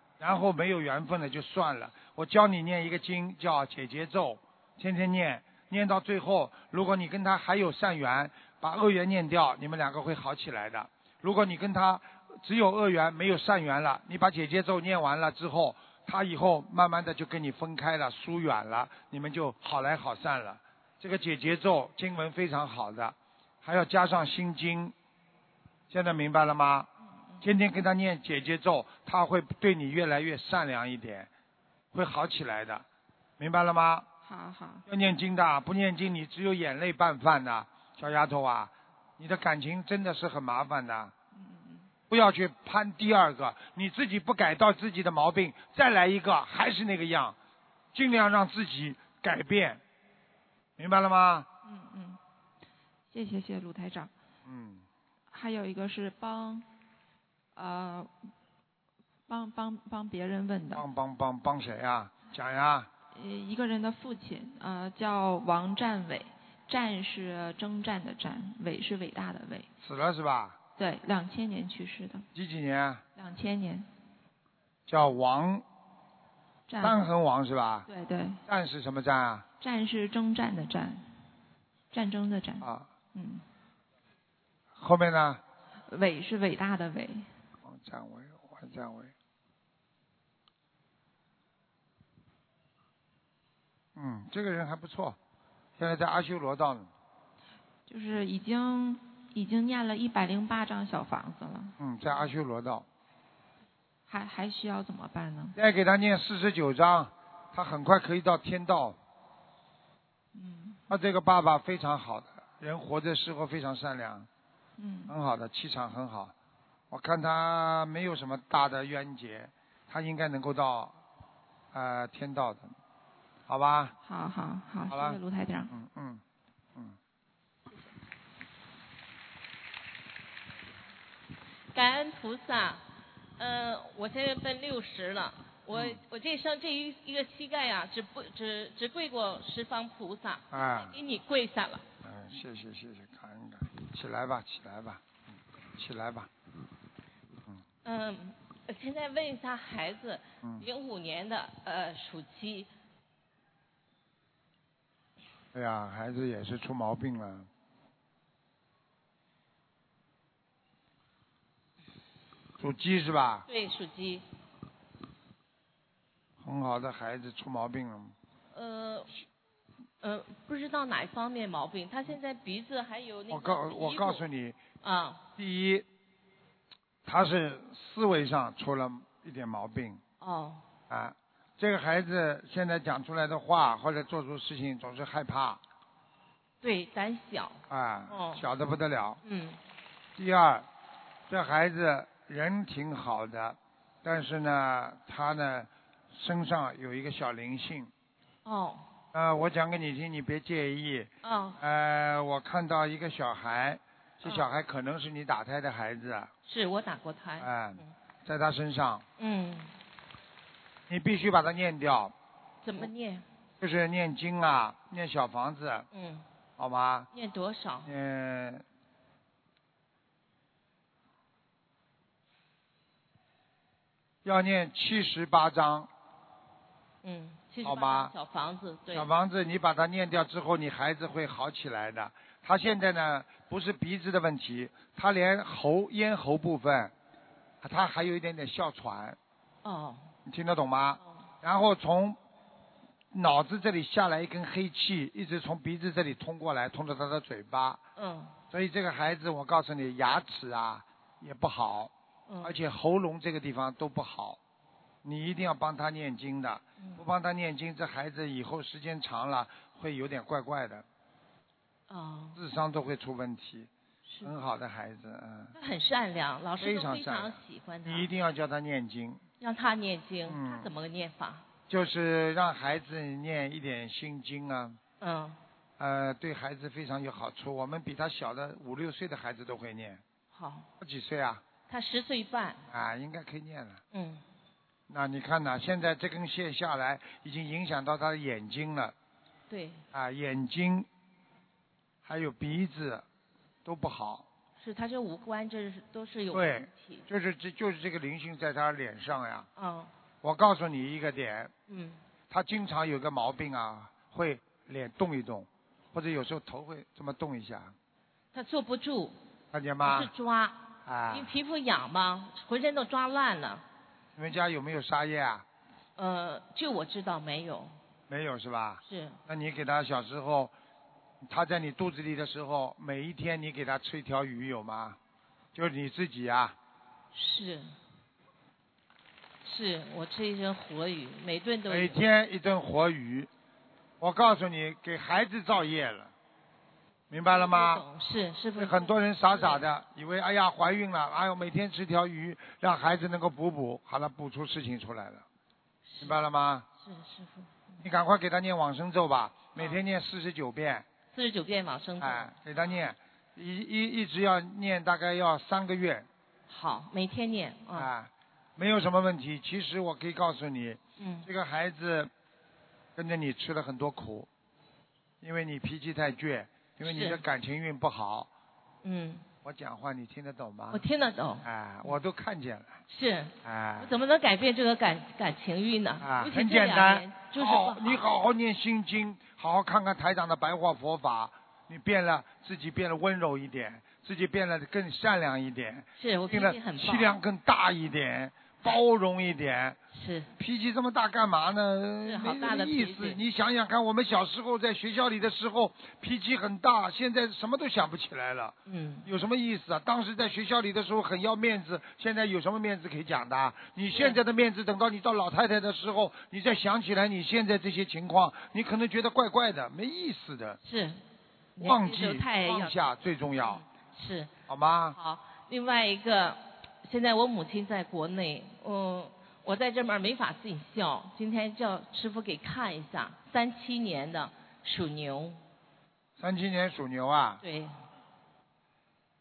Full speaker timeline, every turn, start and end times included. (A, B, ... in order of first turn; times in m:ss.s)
0:00.2-0:24.9 A
0:25.9-0:26.9 A
0:27.4-0:31.3 A
0:31.9-0:32.8 A
0:33.4-0:34.1 A
0:34.2-0:34.8 B
0:34.9-0:41.1 A
0:41.3-0:41.9 B
0:42.1-0:47.4 A
0:47.9-0:49.8 A
0:50.8-0:51.5 A
0:51.6-0:52.2 B
0:53.1-0:54.1 B
0:54.4-0:54.8 A
0:55.3-0:56.6 B
0:57.5-0:58.1 B
0:59.3-1:00.8 B
1:00.7-1:02.9 A
1:03.1-1:09.7 B
1:09.8-1:10.6 A
1:10.8-1:12.2 B
1:12.3-1:13.0 A
1:13.2-1:13.8 B
1:14.9-1:15.6 A
1:16.7-1:17.1 B
1:16.8-1:17.9 A
1:17.9-1:18.4 B
1:18.4-1:19.4 A
1:19.6-1:21.0 B
1:21.9-1:23.4 B
1:22.6-1:22.9 A
1:24.8-1:25.4 A
1:25.9-1:27.3 B
1:27.6-1:29.1 A
1:34.0-1:35.2 A
1:35.8-1:36.9 A
1:37.9-1:41.8 B
1:41.8-1:42.8 A
1:44.1-1:45.6 B
1:45.6-1:49.0 A
1:50.3-1:50.8 B
1:50.9-1:54.3 A
1:54.8-1:55.1 B
1:55.1-1:56.3 A
1:56.9-2:01.0 A
2:01.7-2:02.7 A
2:03.5-2:03.9 A
2:04.0-2:05.7 B
2:04.9-2:05.2 A
2:05.7-2:06.2 A
2:11.7-2:12.8 C
2:13.4-2:21.8 C
2:15.7-2:16.0 A
2:20.5-2:20.9 A
2:22.0-2:25.0 A
2:25.7-2:26.3 A
2:27.8-2:32.7 C
2:30.4-2:30.7 A
2:35.5-2:37.5 A
2:42.6-2:43.4 A
2:43.5-2:44.2 C
2:46.4-2:48.1 A
2:48.5-2:49.1 C
2:50.0-2:54.2 C
2:53.3-2:54.6 A
2:54.8-2:55.2 C
2:55.4-2:55.8 A
2:57.0-3:00.0 A
3:00.2-3:00.6 C
3:00.9-3:05.6 A
3:06.6-3:08.4 C
3:07.7-3:09.2 A
3:09.2-3:09.6 C
3:10.2-3:10.7 A
3:11.3-3:17.9 A
3:18.4-3:18.8 C
3:19.1-3:26.3 A
3:21.2-3:21.6 C
3:26.4-3:27.9 C
3:27.4-3:29.0 A
3:29.2-3:29.7 C
3:30.9-3:32.1 A
3:32.6-3:33.2 C
3:33.6-3:35.9 A
3:35.9-3:36.2 C
3:36.6-3:37.1 A
3:37.1-3:37.9 C
3:37.8-3:38.6 A
3:44.2-3:45.9 A
3:47.0-3:49.1 C
3:47.6-3:48.1 A
3:48.9-3:56.9 A
3:57.6-3:59.2 A
3:59.6-4:00.1 C
4:00.2-4:02.2 A
4:01.0-4:01.2 C
4:03.1-4:07.8 A
4:08.0-4:08.3 C
4:08.5-4:14.4 A
4:12.3-4:12.6 C
4:15.0-4:20.8 A
4:21.9-4:22.4 C
4:22.4-4:23.7 A
4:24.0-4:24.3 C
4:24.2-4:25.5 A
4:25.5-4:28.1 C
4:26.6-4:29.2 A
4:29.4-4:31.4 C
4:30.3-4:30.7 A
4:31.7-4:34.8 A
4:35.0-4:35.4 C
4:35.8-4:40.0 A
4:40.3-4:40.7 C
4:40.8-4:41.4 A
4:41.7-4:42.7 C
4:42.7-4:43.8 A
4:43.9-4:44.2 C
4:44.9-4:48.9 A
4:49.5-4:49.8 C
4:49.9-4:50.9 A
4:52.0-4:53.0 A
4:53.6-4:54.2 A
4:54.6-4:57.0 C
4:56.3-4:59.5 A
4:59.6-4:59.9 C
5:00.2-5:01.5 A
5:01.7-5:02.0 C
5:02.3-5:07.7 A
5:08.3-5:09.2 C
5:09.5-5:10.1 A
5:09.8-5:13.6 C
5:10.8-5:11.3 A
5:14.2-5:15.4 A
5:16.0-5:17.7 C
5:18.1-5:20.5 A
5:18.8-5:19.2 C
5:21.2-5:25.0 A
5:25.5-5:26.6 A
5:27.1-5:27.7 C
5:29.4-5:32.0 C
5:31.7-5:33.3 A
5:34.0-5:36.1 A
5:37.1-5:37.8 A
5:37.2-5:39.6 C
5:38.6-5:45.2 A
5:45.8-5:46.2 C
5:46.0-5:46.6 A
5:46.8-5:47.8 C
5:47.8-5:50.8 A
5:49.5-5:49.8 C
5:51.1-5:52.7 C
5:52.0-5:56.1 A
5:56.5-5:57.9 C
5:57.7-6:02.1 A
6:01.0-6:01.3 C
6:03.0-6:04.3 A
6:05.2-6:08.3 A
6:06.8-6:07.2 C
6:08.8-6:09.2 C
6:09.4-6:10.8 A
6:10.7-6:12.0 C
6:11.4-6:12.8 A
6:12.9-6:18.0 C
6:13.4-6:13.9 A
6:16.0-6:29.8 A
6:25.9-6:27.1 C
6:29.9-6:30.3 C
6:30.4-6:50.6 A
6:32.0-6:33.2 C
6:38.6-6:39.1 C
6:43.8-6:44.2 C
6:50.6-6:51.0 C
6:51.6-6:52.8 C
6:51.6-6:53.6 A
6:53.4-6:54.3 C
6:54.5-6:55.0 A
6:54.9-7:05.4 C
7:06.2-7:07.4 A
7:07.4-7:07.7 C